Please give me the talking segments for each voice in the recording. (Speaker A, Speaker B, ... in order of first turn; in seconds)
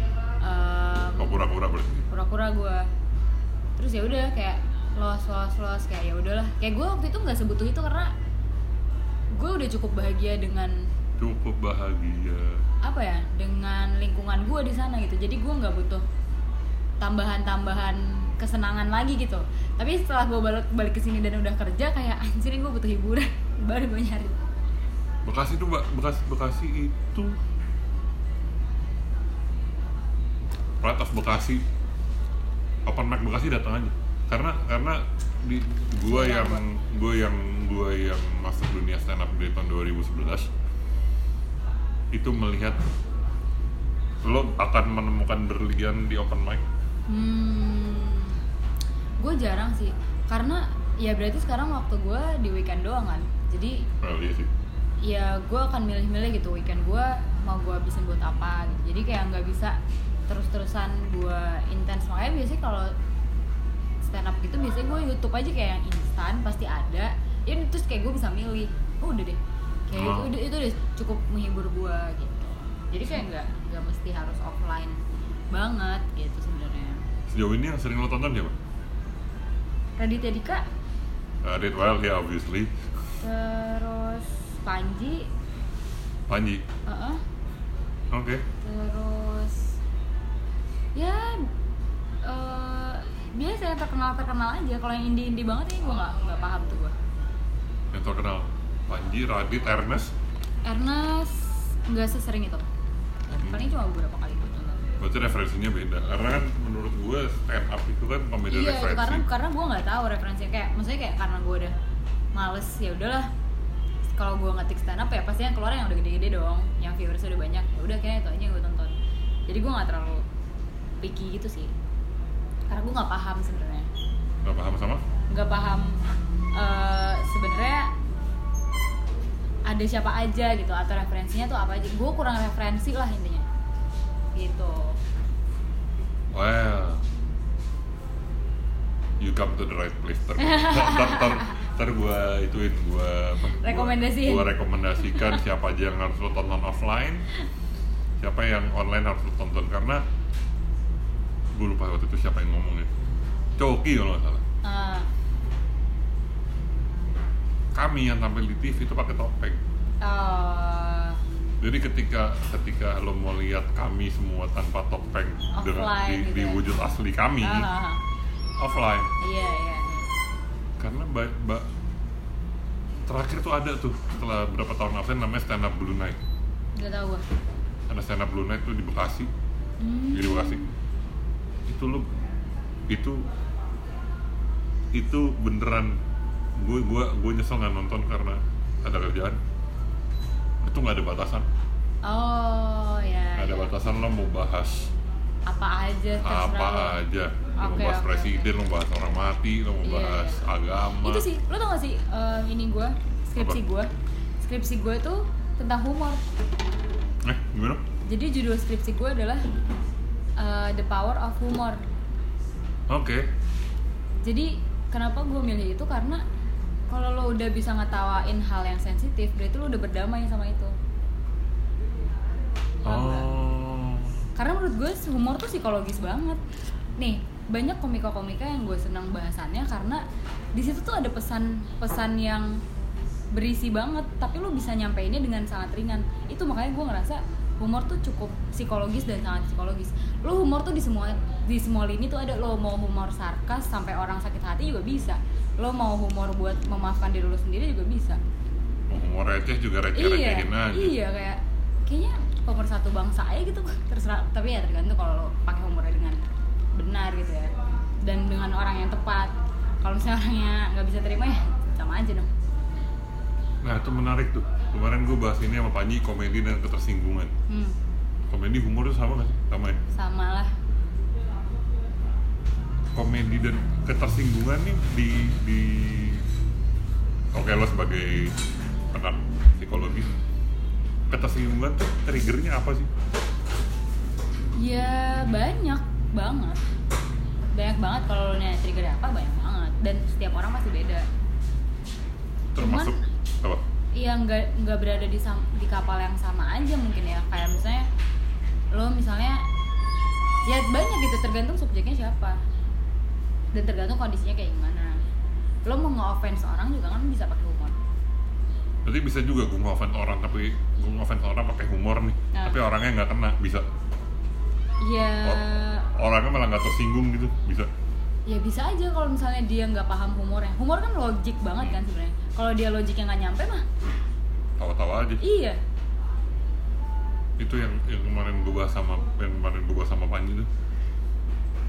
Speaker A: 0.4-1.4, 2.1-2.9, 3.8-8.1, 9.3-10.9, 12.8-16.0, 17.0-24.4, 36.0-36.6, 47.1-48.4, 49.2-53.8, 55.0-62.9, 64.0-75.0, 75.5-77.0, 80.0-80.7, 83.2-85.3, 86.9-87.2, 88.6-89.7, 91.0-91.5, 92.2-97.0, 100.7-102.7, 103.3-104.8, 108.5-111.8, 112.3-113.3, 114.2-118.9, 119.5-120.3, 121.0-121.7, 122.7-123.9, 125.3-126.0, 126.6-127.9, 129.7-133.4, 134.4-135.0, 140.4-141.5, 143.6-145.4, 154.6-155.1, 160.0-161.2, 165.5-166.6, 167.4-168.0, 169.2-170.1, 176.8-177.2, 179.8-180.7, 192.1-193.7, 195.5-197.0, 197.6-198.5, 199.8-200.4, 201.0-203.9, 204.4-206.2, 208.1-209.4, 210.4-211.8, 214.2-216.2, 216.9-220.7, 222.8-223.3, 224.4-226.4, 227.0-230.0, 230.6-232.6, 233.3-248.2, 249.9-256.2, 256.8-257.5, 258.0-262.3, 267.5-267.8, 269.9-270.5, 284.6-286.6, 287.5-291.1, 292.6-293.0, 294.0-297.9, 298.7-299.5, 300.5-302.4, 303.5-305.0, 305.7-307.8, 312.3-312.6, 314.8-315.9, 318.3-323.7, 325.2-325.6
Speaker B: 1.2-2.1, 11.2-12.6, 25.3-27.4, 30.8-31.6, 32.9-40.5, 42.1-42.8, 44.2-46.6, 54.0-54.5, 69.9-70.3, 77.3-78.6, 81.4-82.7, 86.3-86.7, 88.1-88.5, 97.9-100.1, 103.4-103.7, 105.0-109.2, 124.4-125.0, 136.3-137.1, 139.2-147.3, 148.2-150.0, 151.6-152.9, 153.6-154.4, 157.7-159.6, 161.6-167.7, 168.6-169.1, 170.8-171.7, 173.1-176.2, 177.9-179.3, 180.1-180.7, 181.7-182.1, 182.9-183.2, 184.9-186.0, 186.6-189.4, 190.6-191.5, 193.4-194.9, 196.2-201.2, 207.2-207.8, 212.9-213.3, 222.8-224.2, 248.9-250.9, 263.6-267.3, 268.3-269.8, 272.9-276.3, 277.3-278.4, 278.9-280.1, 281.1-282.9, 292.5-293.6, 308.9-313.7, 315.1-317.7, 324.6-325.2, 327.4-330.5